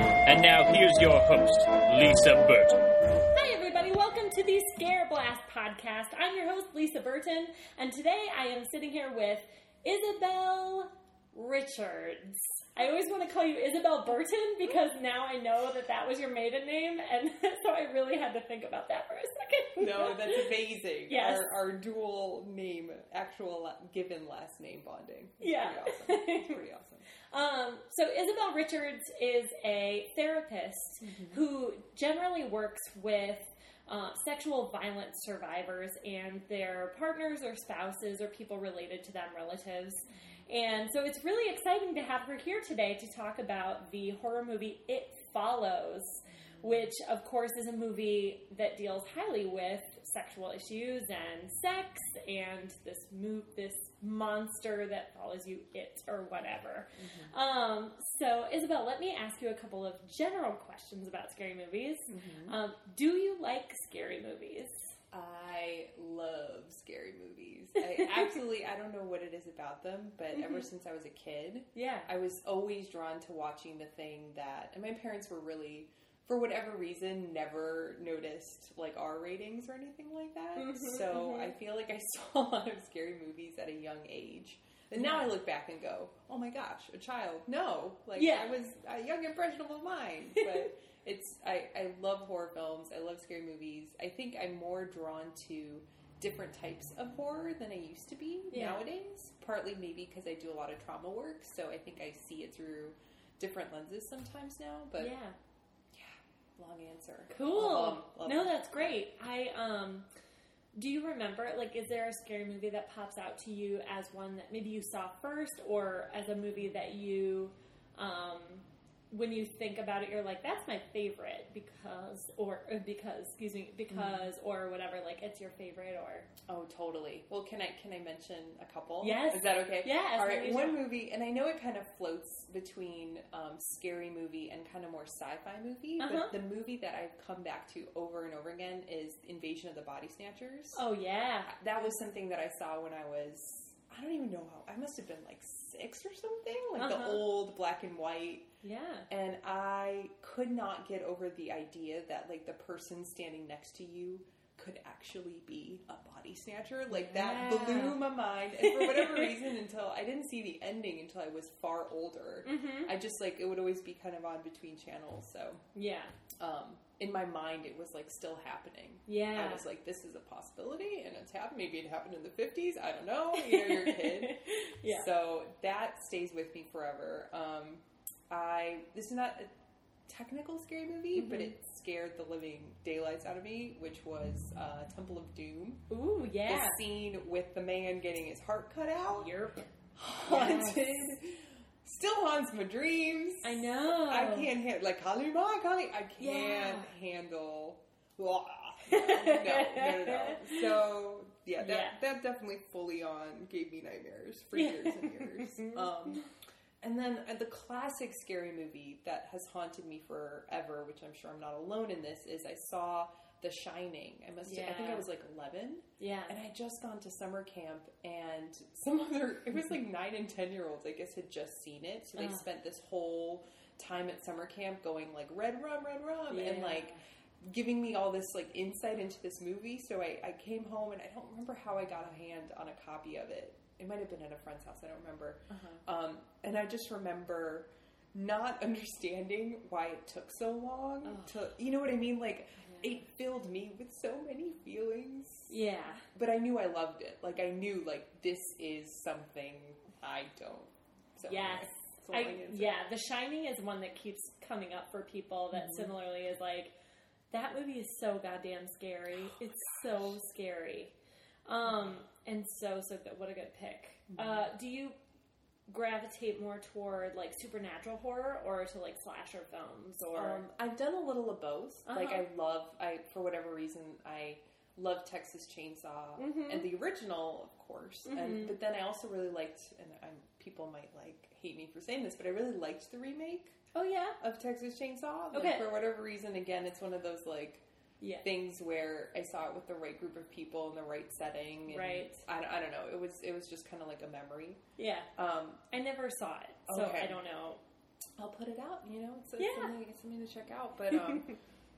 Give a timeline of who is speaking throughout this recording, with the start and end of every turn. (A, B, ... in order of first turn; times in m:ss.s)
0:00.2-0:02.8 A
0:03.3-0:20.5 B
0:19.8-0:27.0 C
0:21.1-0:21.5 B
0:25.4-0:26.6 B
0:27.3-1:04.8 B
0:31.0-0:31.4 C
0:57.0-0:57.3 C
1:02.1-1:02.6 C
1:05.1-1:45.1 C
1:08.0-1:08.2 B
1:10.3-1:10.7 B
1:11.8-1:12.1 B
1:20.6-1:21.5 B
1:25.0-1:25.3 B
1:28.2-1:28.5 B
1:38.5-1:38.9 B
1:45.0-1:45.4 B
1:45.9-1:49.0 C
1:47.3-1:50.1 B
1:50.8-2:06.3 B
2:03.9-2:04.3 C
2:06.5-2:20.8 C
2:09.0-2:10.8 B
2:16.0-2:16.4 B
2:20.7-2:21.6 B
2:21.5-2:28.5 C
2:26.8-2:27.2 B
2:28.6-2:29.1 B
2:29.1-2:45.6 C
2:36.9-2:38.0 B
2:38.6-2:39.4 B
2:42.4-2:42.9 B
2:45.8-2:46.1 B
2:46.4-2:59.5 C
2:49.1-2:49.6 B
2:53.3-2:55.1 B
3:00.1-3:05.8 C
3:01.1-3:01.5 B
3:05.9-3:06.8 B
3:06.4-3:09.3 C
3:09.1-3:09.7 B
3:09.9-3:26.3 C
3:10.2-3:10.9 B
3:13.4-3:14.5 B
3:16.2-3:16.9 B
3:18.9-3:20.8 B
3:21.6-3:22.0 B
3:24.6-3:26.2 B
3:26.8-4:05.5 C
3:34.4-3:35.1 B
3:36.0-3:36.4 B
3:42.2-3:42.4 B
3:46.3-3:47.0 B
3:55.5-3:55.8 B
4:01.0-4:01.4 B
4:02.6-4:03.0 B
4:05.5-4:06.0 B
4:06.0-4:12.8 C
4:11.2-4:16.7 B
4:15.5-4:15.9 C
4:17.3-4:20.9 B
4:21.4-4:25.0 B
4:21.6-4:22.0 C
4:24.1-4:24.5 C
4:25.7-4:30.4 B
4:30.1-4:43.6 C
4:31.8-4:32.2 B
4:36.2-4:36.7 B
4:38.1-4:38.6 B
4:43.7-4:44.2 B
4:44.2-4:47.6 C
4:45.3-4:45.7 B
4:48.0-4:48.3 B
4:48.2-4:54.6 C
4:51.7-4:52.1 B
4:54.8-4:55.1 B
4:55.2-4:55.6 C
4:55.7-4:57.6 B
4:56.7-4:57.2 C
4:58.2-5:01.3 C
4:59.4-4:59.7 B
5:00.9-5:01.4 B